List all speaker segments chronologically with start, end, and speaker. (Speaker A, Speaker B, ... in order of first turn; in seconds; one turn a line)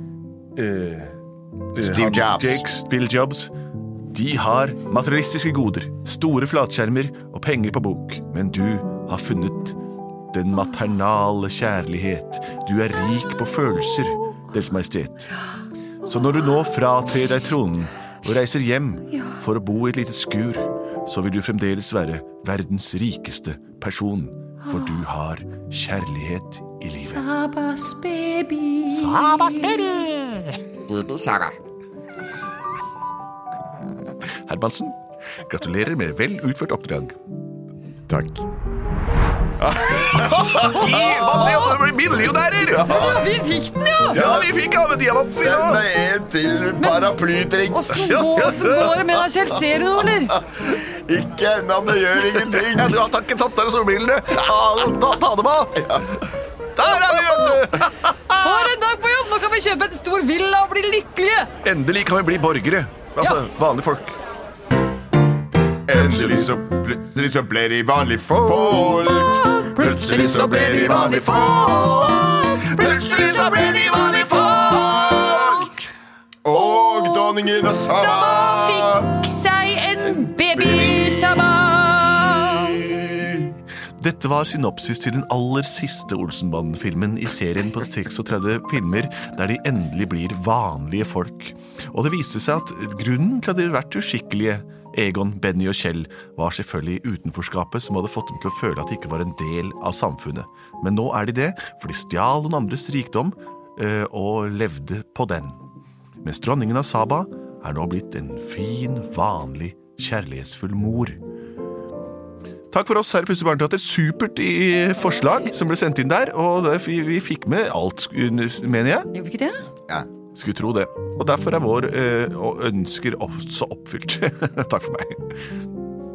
Speaker A: 0.6-1.2
Speaker A: 1.7-3.5
Speaker B: 1.8-2.6
Speaker A: 4.1-9.8
Speaker A: 10.3-15.3
Speaker A: 16.1-27.2
Speaker C: 24.6-24.9
Speaker C: 27.0-30.1
Speaker A: 28.9-31.4
Speaker A: 34.5-37.1
Speaker B: 38.1-38.5
Speaker B: 39.6-41.8
Speaker A: 40.5-42.9
Speaker B: 42.5-43.3
Speaker C: 42.8-44.2
Speaker B: 44.1-44.7
Speaker A: 44.1-45.8
Speaker B: 45.4-48.5
Speaker C: 46.8-47.1
Speaker C: 47.7-50.4
Speaker A: 48.1-49.1
Speaker B: 50.4-53.0
Speaker A: 52.3-56.2
Speaker B: 55.8-56.1
Speaker A: 56.8-58.6
Speaker C: 56.9-61.5
Speaker A: 61.6-64.2
Speaker B: 65.9-71.7
Speaker A: 65.9-66.6
Speaker A: 68.3-69.1
Speaker C: 68.8-75.7
Speaker A: 69.8-74.9
Speaker B: 74.5-75.8
Speaker B: 76.4-79.1
Speaker C: 76.5-82.8
Speaker B: 80.1-81.7
Speaker B: 82.4-83.5
Speaker A: 84.0-105.6
Speaker A: 106.2-111.2
Speaker A: 112.7-119.1
Speaker C: 119.1-119.6
Speaker A: 120.3-125.3